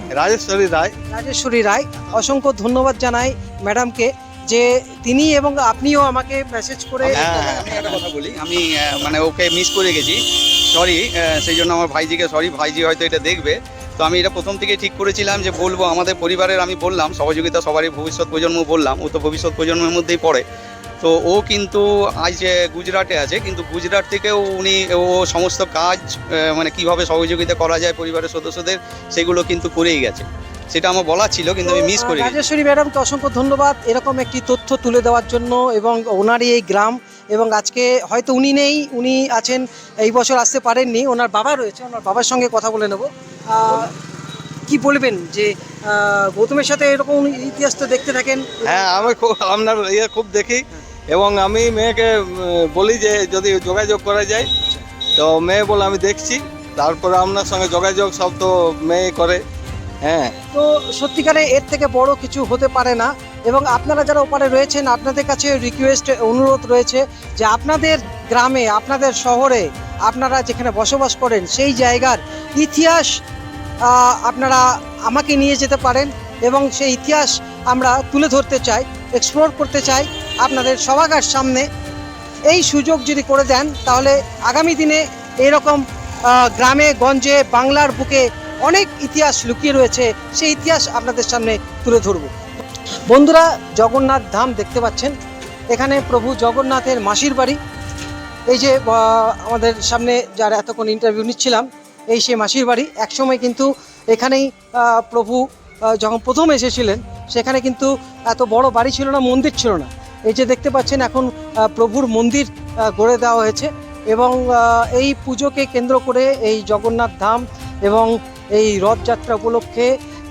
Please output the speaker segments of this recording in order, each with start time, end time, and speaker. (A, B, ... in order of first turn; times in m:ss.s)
0:00.2-0:01.0 A
0:01.1-0:07.6 B
0:07.0-0:20.4 C
0:21.0-0:32.4 C
0:31.6-0:43.9 B
0:44.7-0:48.7 B
0:48.6-0:54.5 A
0:54.6-0:54.9 B
0:55.2-0:59.4 A
1:00.0-1:00.3 A
1:00.5-1:13.2 B
1:13.8-1:21.7 B
1:22.5-1:32.3 B
1:33.1-1:35.1 B
1:35.7-1:37.6 B
1:38.5-1:59.9 B